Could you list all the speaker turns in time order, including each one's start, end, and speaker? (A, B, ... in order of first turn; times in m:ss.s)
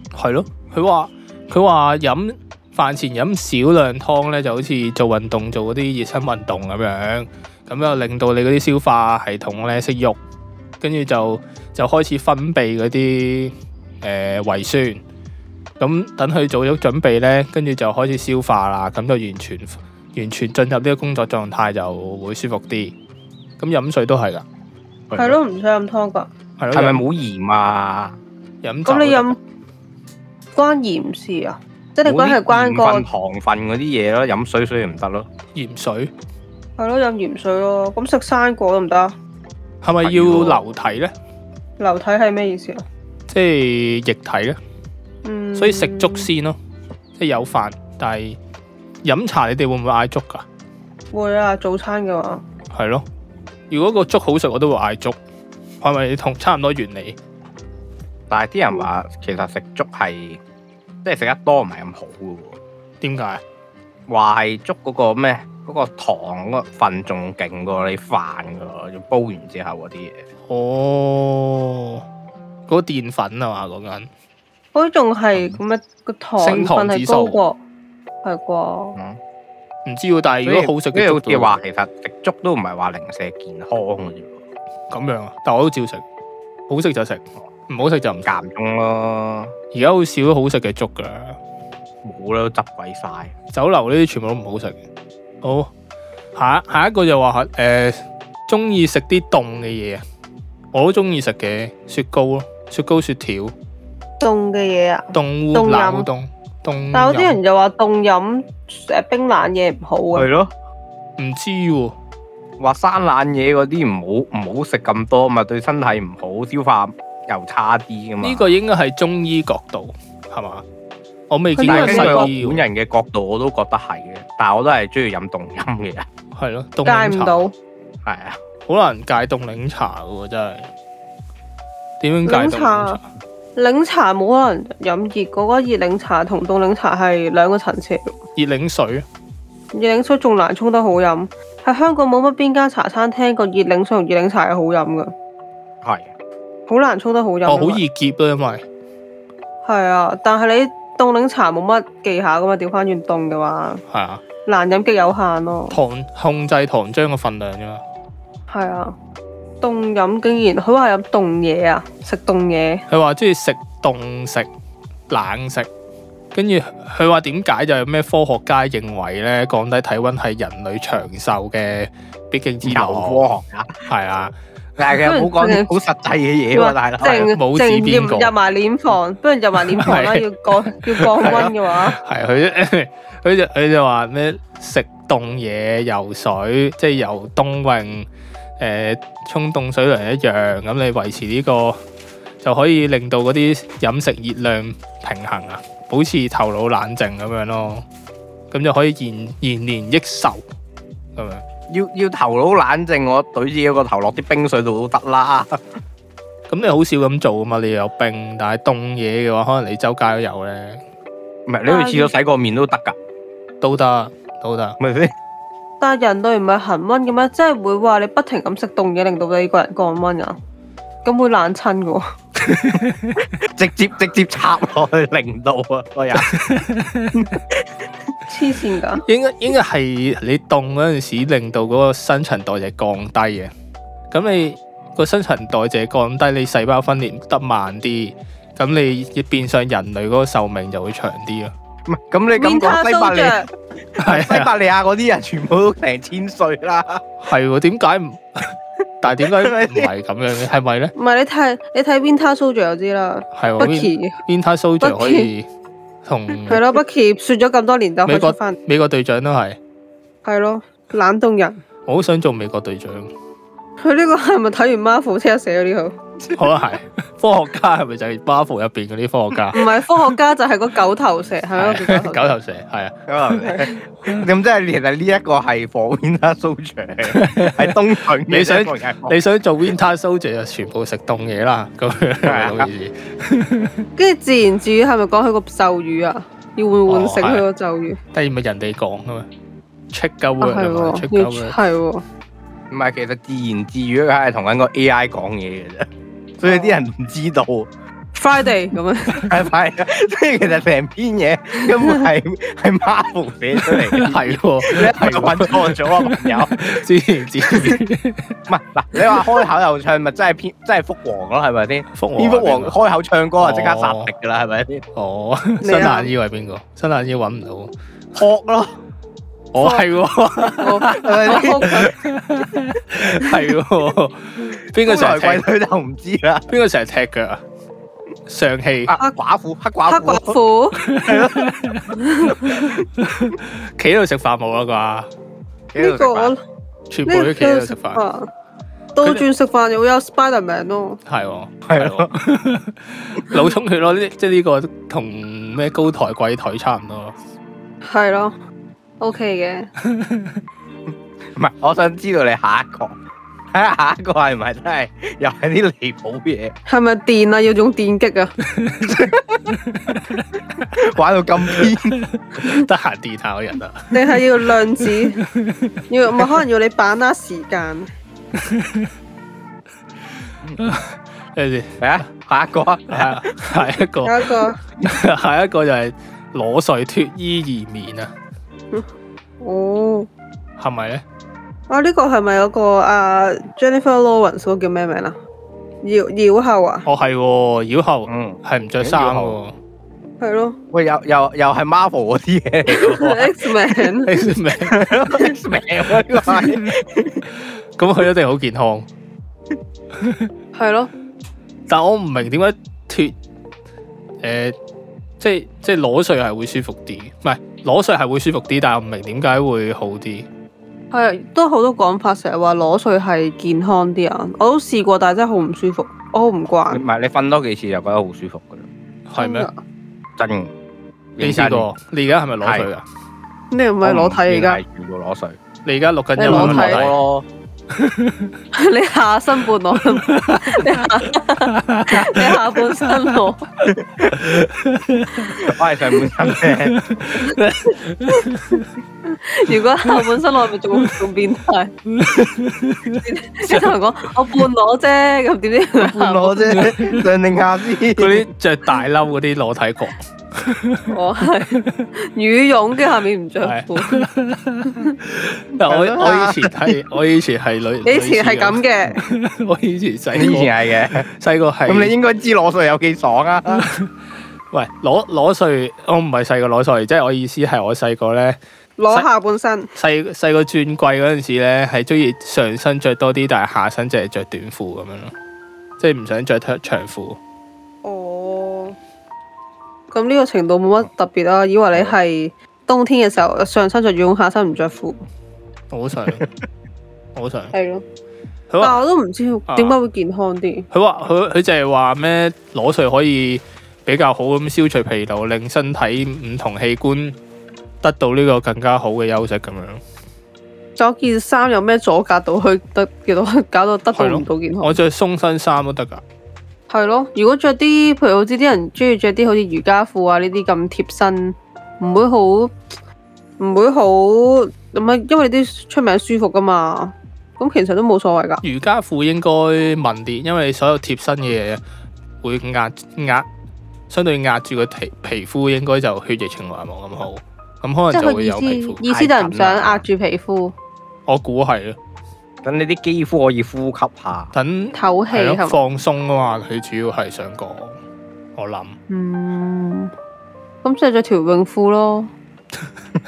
0:00.1-0:10.2 A
0:10.8-0:15.0 A
0:15.8-0:23.0 A
0:23.6-0:24.4 A
0:25.1-0:25.4 B
0:25.2-0:26.3 C
0:26.6-0:27.0 A
0:26.7-0:28.2 B
0:28.6-0:29.4 A
0:28.9-0:29.4 C
0:30.6-0:33.1 C
0:32.0-0:35.3 B
0:35.6-0:36.1 A
0:36.8-0:39.2 C
0:39.8-0:41.1 A
0:40.0-0:40.7 B
0:41.8-0:42.8 C
0:43.3-0:44.6 A
0:45.2-0:46.3 C
0:45.6-0:46.6 A
0:47.2-0:48.4 A
0:49.0-0:50.4 A
0:51.1-0:52.4 C
0:52.7-0:53.0 A
0:53.7-0:55.2 A
0:55.8-0:57.2 A
0:58.3-1:00.4 B
1:01.0-1:02.6 B
1:03.0-1:03.4 A
1:04.1-1:10.2 B
1:10.5-1:12.0 A
1:12.7-1:14.1 A
1:14.7-1:17.6 C
1:16.4-1:17.4 A
1:18.2-1:19.0 C
1:19.9-1:21.6 A
1:20.4-1:24.4 B
1:24.9-1:26.0 A
1:26.7-1:28.3 A
1:28.2-1:29.5 B
1:29.7-1:31.4 A
1:32.0-1:33.3 B
1:33.5-1:34.8 A
1:35.4-1:35.7 A
1:36.4-1:40.0 A
1:40.7-1:43.5 A
1:44.2-1:46.1 C
1:45.1-1:47.4 A
1:46.9-1:50.3 C
1:50.2-1:50.5 B
1:51.2-1:52.0 A
1:52.6-1:58.5 B
1:58.2-2:00.6 A
2:01.3-2:02.6 A
2:01.5-2:02.3 C
2:01.7-2:06.1 B
2:06.4-2:07.5 A
2:06.8-2:07.5 C
2:08.0-2:08.4 B
2:08.7-2:10.7 A
2:12.0-2:13.0 A
2:12.3-2:13.0 C
2:13.6-2:18.1 C
2:18.4-2:19.0 A
2:19.7-2:25.1 C
2:25.8-2:26.1 B
2:26.7-2:27.8 C
2:27.5-2:28.6 A
2:29.6-2:33.8 C
2:33.9-2:34.2 A
2:34.5-2:35.8 C
2:35.7-2:37.8 A
2:38.5-2:39.0 C
2:39.6-2:42.8 C
2:42.9-2:44.5 A
2:45.1-2:45.7 A
2:46.3-2:53.2 A
2:52.6-2:53.8 B
2:53.9-2:54.3 A
2:54.8-2:57.3 B
2:55.0-2:55.7 C
2:56.5-3:02.0 C
2:57.2-2:58.3 A
2:59.7-3:08.1 A
3:01.2-3:01.5 B
3:08.6-3:11.8 A
3:12.4-3:17.8 A
3:18.5-3:20.4 A
3:21.2-3:21.4 A
3:21.7-3:25.6 B
3:26.5-3:30.8 A
3:31.5-3:33.0 B
3:31.7-3:32.1 C
3:33.6-3:34.8 A
3:34.8-3:35.1 B
3:35.8-3:40.4 C
3:41.0-3:42.0 C
3:42.5-3:43.2 A
3:43.4-3:46.3 B
3:46.2-3:47.4 A
3:47.2-3:47.7 B
3:48.3-3:49.0 C
3:49.0-3:53.5 A
3:54.1-4:01.5 A
4:01.9-4:07.0 B
4:02.4-4:03.5 C
4:04.0-4:04.5 A
4:07.2-4:10.9 A
4:09.2-4:09.9 B
4:11.0-4:14.2 C
4:13.4-4:15.5 A
4:14.8-4:15.3 C
4:16.0-4:16.6 A
4:16.5-4:18.6 C
4:18.1-4:19.6 A
4:20.2-4:21.6 C
4:21.9-4:23.1 A
4:23.8-4:26.0 C
4:26.3-4:29.8 A
4:29.5-4:32.4 C
4:31.6-4:33.5 A
4:33.1-4:39.2 B
4:33.4-4:33.7 C
4:37.1-4:43.9 A
4:42.2-4:42.7 B
4:44.0-4:48.0 C
4:46.9-4:47.5 A
4:48.1-4:49.3 A
4:49.9-4:51.6 A
4:50.4-4:52.0 C
4:52.7-4:57.7 B
4:56.5-4:56.7 C
4:58.2-4:59.3 C
4:59.1-5:06.6 B
5:03.7-5:08.4 A
5:07.4-5:07.8 B
5:08.5-5:14.8 B
5:09.0-5:09.3 A
5:12.0-5:12.7 A
5:13.4-5:14.1 A
5:15.0-5:17.7 A
5:15.6-5:16.1 C
5:18.2-5:18.8 B
5:19.5-5:25.4 A
5:19.6-5:19.9 C
5:20.6-5:21.9 C
5:20.8-5:22.0 B
5:24.8-5:26.5 B
5:26.5-5:27.4 A
5:28.3-5:29.0 A
5:28.9-5:30.4 B
5:29.9-5:30.8 C
5:30.8-5:35.1 A
5:31.0-5:31.5 B
5:32.0-5:32.8 C
5:35.7-5:36.3 B
5:35.8-5:36.4 C
5:36.9-5:38.0 A
5:37.1-5:38.3 C
5:39.0-5:41.0 C
5:41.1-5:47.2 A
5:41.7-5:42.1 B
5:47.8-5:48.4 C
5:49.0-5:49.7 C
5:49.9-5:50.3 A
5:51.4-5:53.0 B
5:53.5-5:56.5 B
5:56.7-5:58.3 C
5:58.5-6:00.6 A
5:58.9-5:59.4 B
6:00.7-6:02.0 B
6:01.6-6:04.2 A
6:03.9-6:05.2 C
6:05.2-6:05.8 A
6:05.9-6:07.9 C
6:08.4-6:08.9 A
6:10.6-6:11.8 A
6:11.8-6:13.3 B
6:12.9-6:18.1 A
6:14.0-6:14.6 C
6:19.4-6:20.1 C
6:20.6-6:21.0 A
6:21.7-6:25.2 C
6:25.8-6:26.9 C
6:26.9-6:29.5 A
6:28.1-6:29.4 B
6:30.2-6:30.6 C
6:30.7-6:33.4 B
6:32.7-6:34.1 C
6:34.0-6:34.9 A
6:34.7-6:37.2 B
6:37.8-6:38.9 A
6:40.0-6:40.3 A
6:40.6-6:40.9 C
6:41.7-6:43.2 A
6:44.2-6:44.6 A
6:45.2-6:50.3 A
6:50.9-6:56.8 C
6:56.7-6:58.7 B
6:59.1-6:59.5 A
6:59.2-6:59.6 C
7:00.2-7:00.5 B
7:01.2-7:01.7 B
7:01.2-7:02.8 A
7:02.4-7:02.7 B
7:03.5-7:04.6 C
7:03.8-7:05.4 B
7:05.6-7:07.0 A
7:06.2-7:06.9 C
7:06.2-7:07.3 B
7:07.8-7:08.3 A
7:08.5-7:13.5 C
7:09.9-7:10.8 A
7:11.5-7:18.7 A
7:13.7-7:14.2 B
7:15.3-7:16.8 B
7:19.0-7:21.7 C
7:19.8-7:20.2 A
7:21.9-7:24.4 A
7:23.0-7:26.8 C
7:25.8-7:28.3 B
7:26.5-7:27.1 A
7:28.0-7:30.9 A
7:30.9-7:34.1 C
7:31.5-7:31.9 A
7:33.4-7:41.9 A
7:34.7-7:35.0 C
7:35.6-7:36.8 B
7:37.8-7:39.0 C
7:40.1-7:41.1 B
7:41.7-7:43.7 B
7:43.6-7:43.9 A
7:44.5-7:48.4 A
7:48.8-7:49.7 C
7:49.8-7:55.1 A
7:55.8-7:57.2 A
7:57.8-7:58.8 C
7:59.9-8:05.0 C
8:05.7-8:06.3 A
8:07.2-8:07.5 A
8:07.5-8:07.8 C
8:08.5-8:08.8 A
8:08.6-8:10.7 C
8:09.5-8:09.8 A
8:10.7-8:17.2 A
8:17.8-8:19.8 A
8:20.8-8:24.8 C
8:23.9-8:26.0 A
8:26.7-8:32.6 C
8:33.4-8:38.4 C
8:38.4-8:41.6 A
8:42.2-8:43.3 A
8:43.9-8:48.8 A
8:47.9-8:50.6 C
8:48.8-8:49.8 B
8:51.1-8:51.8 A
8:52.4-8:54.3 B
8:54.3-8:57.8 A
8:54.7-8:55.6 C
8:58.4-8:58.8 A
8:58.9-8:59.9 C
9:00.6-9:02.1 C